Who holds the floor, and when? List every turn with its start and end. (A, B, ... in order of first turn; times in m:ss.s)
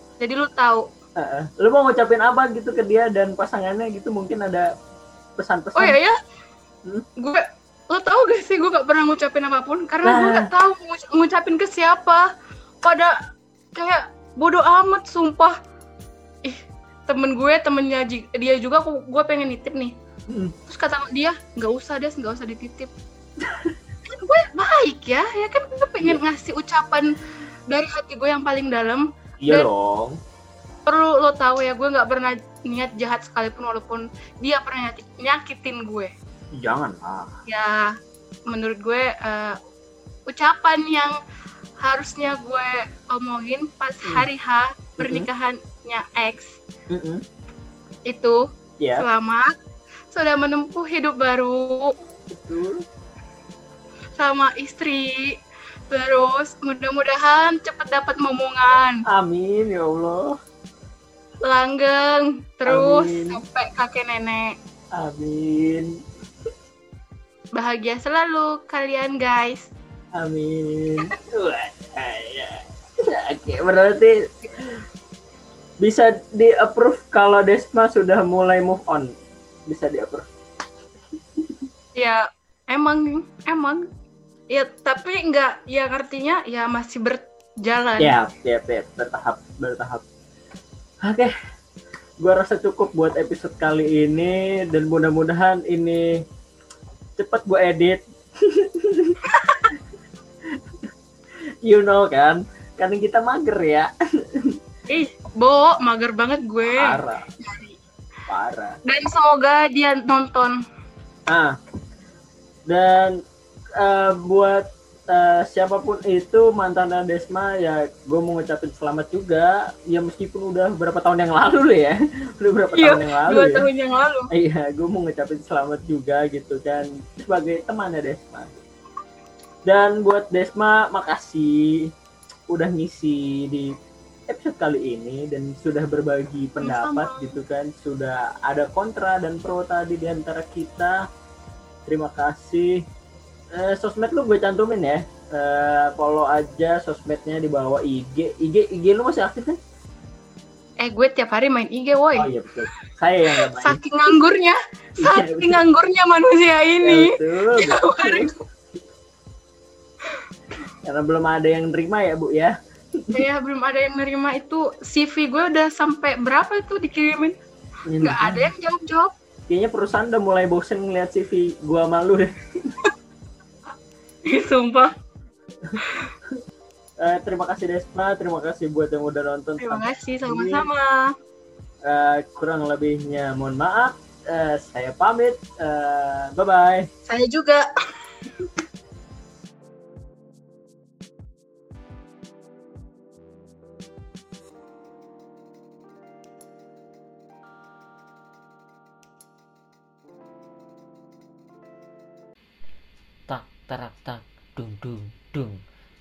0:00.2-0:00.9 A
0:01.2-0:04.7 B
0:05.4-0:06.0 B
0:05.8-0:06.2 A
0:07.2-0:12.3 A
0:10.0-0:10.5 B
0:12.8-0:13.2 A
0:13.7-0:15.6 A
0:16.4-0:19.9 A
0:20.3-0:20.5 B
0:20.7-0:22.9 A
0:23.4-0:23.7 B
0:24.1-0:27.1 A
0:27.7-0:29.7 A
0:29.4-0:30.2 B
0:30.9-0:36.1 A
0:36.5-0:37.4 B
0:37.4-0:38.0 A
0:38.5-0:39.6 A
0:40.3-0:41.2 A
0:41.8-0:46.6 A
0:45.0-0:45.3 B
0:46.9-0:47.2 B
0:48.1-0:48.4 A
0:48.8-0:49.1 B
0:49.0-0:49.5 A
0:50.1-0:51.9 A
0:52.3-0:52.8 B
0:54.2-0:55.4 A
0:55.9-0:59.0 A
0:59.1-1:00.4 B
1:01.4-1:04.6 A
1:02.7-1:03.4 B
1:04.9-1:05.9 B
1:07.6-1:09.7 A
1:10.2-1:14.8 B
1:15.8-1:19.1 B
1:19.7-1:20.3 B
1:21.4-1:21.7 B
1:22.0-1:23.8 A
1:24.5-1:28.2 A
1:28.0-1:30.0 B
1:31.0-1:31.3 B
1:32.2-1:36.2 B
1:37.2-1:39.2 B
1:39.2-1:39.7 A
1:40.5-1:40.8 B
1:41.6-1:44.6 B
1:44.9-1:47.8 A
1:46.6-1:47.2 B
1:48.3-1:48.8 B
1:48.8-1:50.6 A
1:51.3-1:51.6 B
1:52.7-1:53.2 B
1:53.8-2:03.7 B
2:02.7-2:04.3 A
2:04.3-2:08.6 B
2:09.6-2:11.9 B
2:12.5-2:13.8 B
2:14.3-2:21.0 B
2:16.6-2:17.4 A
2:21.8-2:22.8 B
2:23.5-2:29.6 B
2:30.8-2:32.3 A
2:32.2-2:33.8 B
2:33.3-2:38.4 A
2:35.0-2:35.6 B
2:36.8-2:38.3 B
2:40.8-2:43.2 B
2:43.1-2:47.4 A
2:47.9-2:48.5 B
2:48.0-2:49.1 A
2:49.5-2:52.8 B
2:54.3-2:54.9 A
2:55.6-2:56.4 B
2:55.8-2:56.1 A
2:57.0-3:00.7 B
2:59.6-3:01.1 A
3:01.8-3:06.9 B
3:07.1-3:07.7 A
3:23.3-3:25.6 C